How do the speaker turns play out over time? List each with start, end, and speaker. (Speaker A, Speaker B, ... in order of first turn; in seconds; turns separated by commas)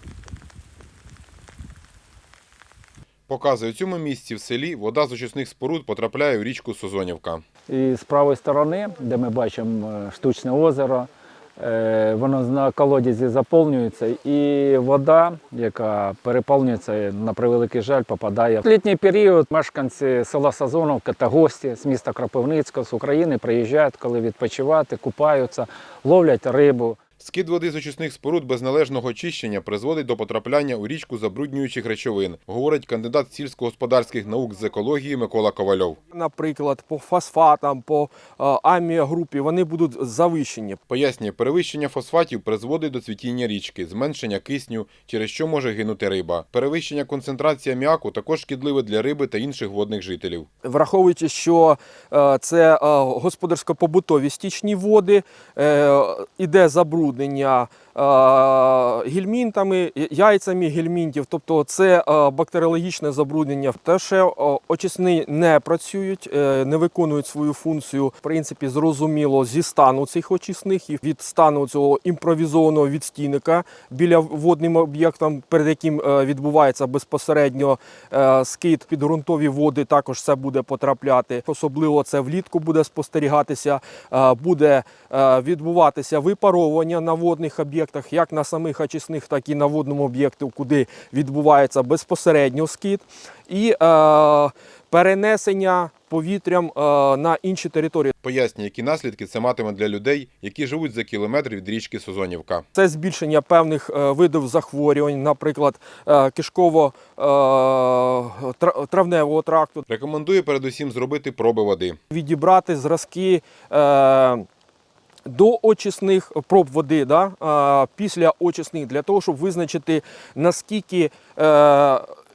Speaker A: 3.3-7.4, Speaker B: 7.7-27.0, Speaker A: 27.2-36.0, Speaker C: 36.1-40.8, Speaker A: 40.9-50.5, Speaker C: 50.6-98.1, Speaker A: 98.2-102.6, Speaker C: 102.8-109.8, Speaker A: 109.9-112.0, Speaker C: 112.1-114.5, Speaker C: 115.3-122.1